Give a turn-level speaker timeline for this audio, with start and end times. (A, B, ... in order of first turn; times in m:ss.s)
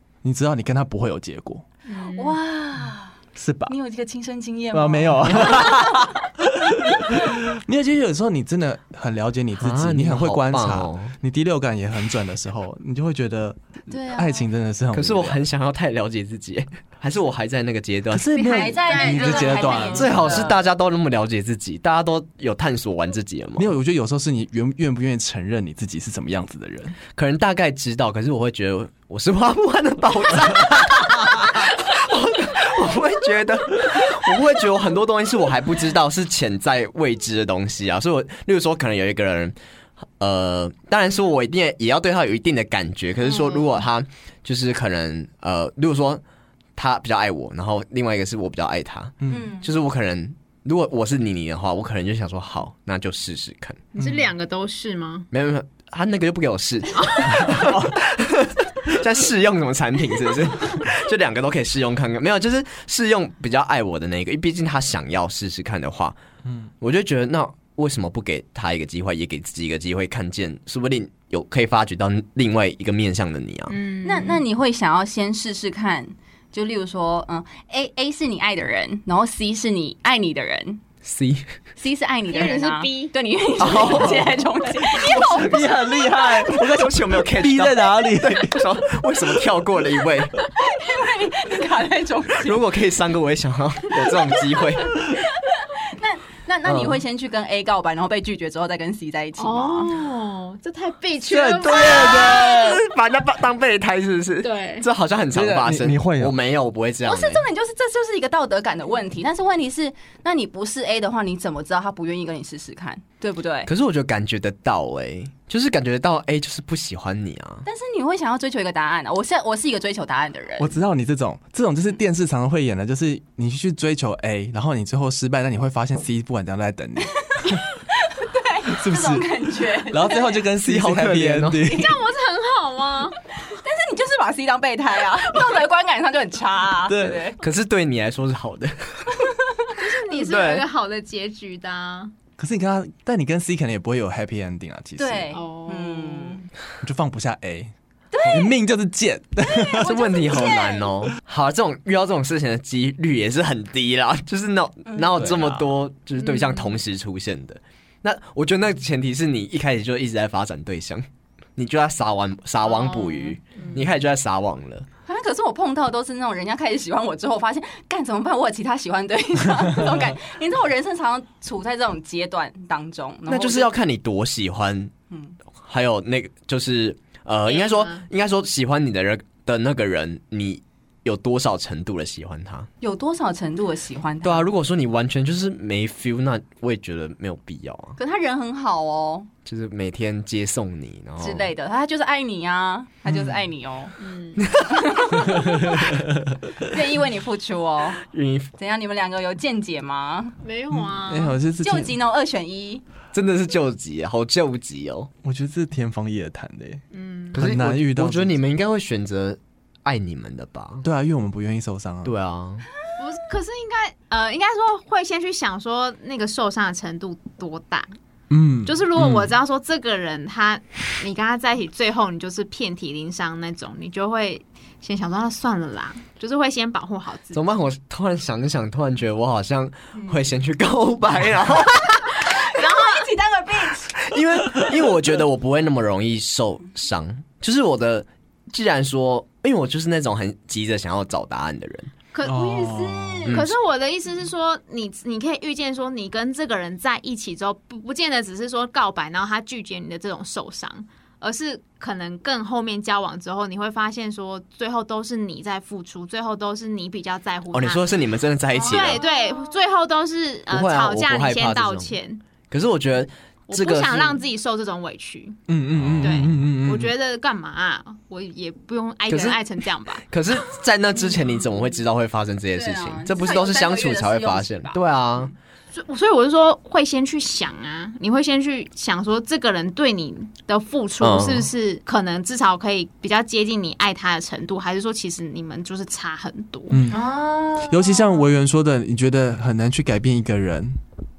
0:00.2-0:01.6 A
0:01.8-0:02.4 B
0:02.0-0:03.2 C
0:03.4-0:03.7 A
0:03.7-0:06.1 C
0:04.7-0:15.4 A
0:09.6-0:11.1 D
0:13.9-0:14.4 C
0:14.9-0:18.7 D
0:18.1-0:20.2 A
0:18.4-0:20.6 C
0:18.8-0:20.4 B
0:19.9-0:23.7 D
0:23.6-0:27.0 A
0:27.1-0:39.6 D
0:40.2-0:46.2 D
0:43.3-0:43.7 B
0:46.8-0:53.8 D
0:49.3-0:49.7 C
0:53.9-0:55.3 B
0:54.0-0:54.3 A
0:55.3-1:06.2 D
0:56.9-0:57.7 B
1:06.8-1:13.7 D
1:13.7-1:14.4 B
1:14.0-1:20.8 C
1:21.0-1:21.5 D
1:21.8-1:26.5 C
1:22.3-1:23.1 B
1:23.6-1:24.4 D
1:24.8-1:29.4 A
1:24.9-1:25.2 D
1:26.4-1:30.5 D
1:30.5-1:32.6 C
1:32.4-1:35.0 D
1:35.1-1:39.9 C
1:36.6-1:37.0 D
1:39.4-1:42.8 B
1:41.3-1:47.4 D
1:41.6-1:42.4 A
1:44.4-1:44.9 B
1:45.3-1:46.3 A
1:47.0-1:53.7 C
1:53.6-1:57.6 D
1:57.6-2:00.7 C
2:00.6-2:07.6 A
2:07.3-2:10.4 C
2:08.7-2:12.0 A
2:10.6-2:11.7 D
2:11.7-2:13.2 B
2:13.4-2:17.4 C
2:16.9-2:17.2 A
2:17.4-2:19.3 D
2:19.2-2:19.7 C
2:19.8-2:22.1 B
2:20.1-2:20.6 D
2:22.4-2:25.3 A
2:25.0-2:26.4 C
2:25.3-2:26.5 B
2:26.8-2:27.7 A
2:28.1-2:28.5 C
2:28.3-2:29.9 A
2:29.5-2:30.9 C
2:29.8-2:41.0 D
2:34.9-2:35.3 C
2:35.2-2:35.7 A
2:36.2-2:36.8 B
2:41.6-2:44.9 D
2:42.6-2:43.8 B
2:45.0-2:53.7 C
2:53.3-2:54.9 D
2:55.1-2:55.4 C
2:55.6-3:02.7 D
2:57.5-2:58.0 B
3:02.8-3:04.5 C
3:04.2-3:08.0 D
3:08.0-3:09.3 C
3:09.4-3:11.5 D
3:11.2-3:13.9 C
3:13.1-3:13.3 A
3:14.0-3:14.4 B
3:14.4-3:15.1 D
3:14.5-3:15.8 C
3:15.2-3:16.0 A
3:16.6-3:18.0 C
3:18.0-3:18.5 D
3:18.6-3:20.4 C
3:20.4-3:21.4 B
3:20.7-3:22.0 A
3:21.6-3:22.8 C
3:23.1-3:25.1 D
3:25.2-3:26.8 A
3:26.9-3:27.4 B
3:27.3-3:28.4 A
3:27.3-3:30.8 D
3:30.8-3:32.1 A
3:32.0-3:32.7 D
3:33.0-3:37.9 B
3:38.3-3:39.3 A
3:38.6-3:47.4 B
3:47.3-3:52.3 D
3:52.3-3:54.0 C
3:52.4-3:53.1 B
3:53.9-4:01.9 D
4:02.1-4:17.9 B
4:02.2-4:03.3 A
4:02.3-4:03.3 C
4:17.5-4:19.0 D
4:18.6-4:19.5 C
4:18.6-4:22.2 B
4:20.5-4:21.9 D
4:22.5-4:24.2 D
4:23.5-4:25.4 B
4:25.5-4:26.9 A
4:25.8-4:26.3 D
4:26.0-4:30.4 B
4:29.1-4:29.4 D
4:30.1-4:35.3 D
4:32.5-4:34.8 C
4:35.7-4:46.8 B
4:41.0-4:41.5 D
4:46.7-4:47.0 A
4:46.9-4:48.2 C
4:47.6-4:50.8 A